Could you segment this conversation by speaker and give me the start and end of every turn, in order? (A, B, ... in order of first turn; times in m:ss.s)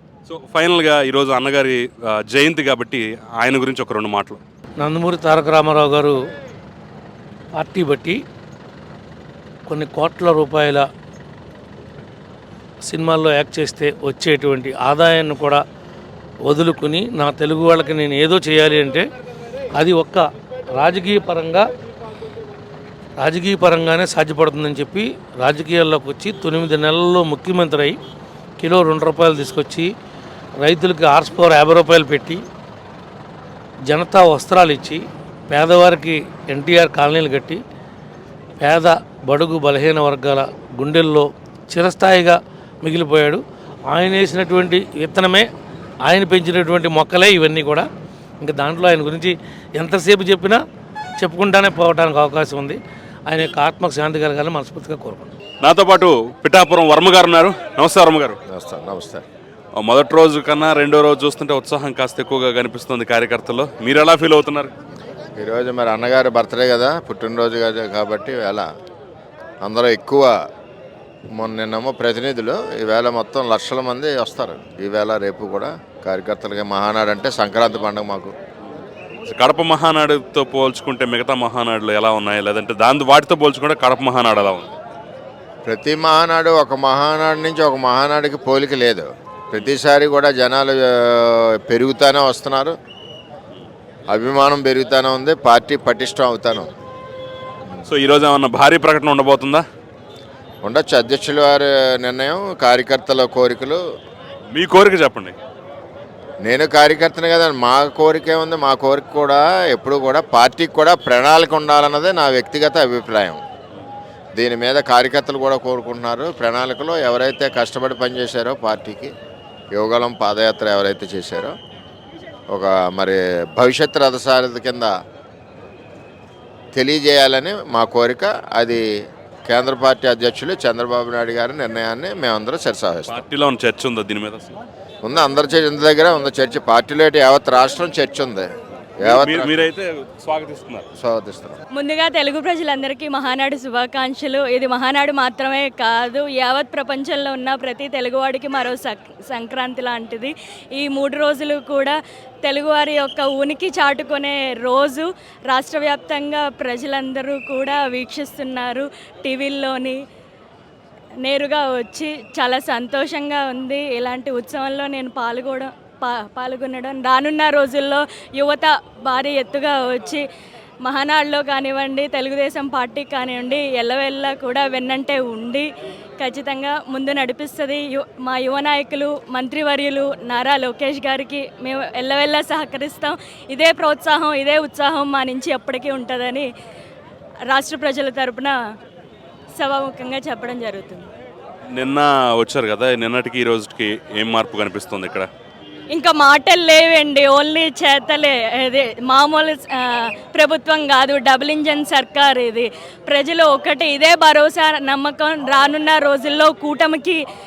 0:00.3-0:04.4 A
0:04.8-0:06.2 B
0:07.5-0:08.2 B
0:09.7-0:10.9 B
0:12.8-0:15.6 B
0:16.4-0:19.1 B
0:19.7-0:21.6 B
0:23.2-0:28.0 B
0:28.6-0:29.9 B
0:30.6-0:32.5 B
0:33.8-0:37.6 B
0:38.6-0:45.5 B
0:46.0-0:47.9 B
0:48.4-0:50.6 B
0:51.2-0:55.3 B
0:55.6-0:58.4 A
0:58.5-0:59.2 C
0:59.8-1:04.7 A
1:05.4-1:08.7 C
1:09.6-1:10.3 C
1:11.3-1:18.3 C
1:19.3-1:24.8 A
1:25.6-1:32.8 C
1:34.1-1:36.7 C
1:37.8-1:39.6 A
1:40.6-1:43.8 C
1:44.5-1:45.4 A
1:46.4-1:53.4 C
1:54.4-1:59.1 C
1:59.7-2:01.6 C
2:02.5-2:04.9 C
2:06.7-2:08.8 C
2:09.5-2:13.2 C
2:13.1-2:14.5 A
2:15.0-2:19.7 C
2:19.0-2:20.9 A
2:21.0-2:21.6 C
2:21.7-2:40.0 D
2:41.2-2:50.2 D
2:50.8-2:55.7 D
2:56.2-3:06.5 D
3:07.5-3:08.6 D
3:09.6-3:11.1 D
3:11.7-3:15.3 A
3:15.9-3:27.2 D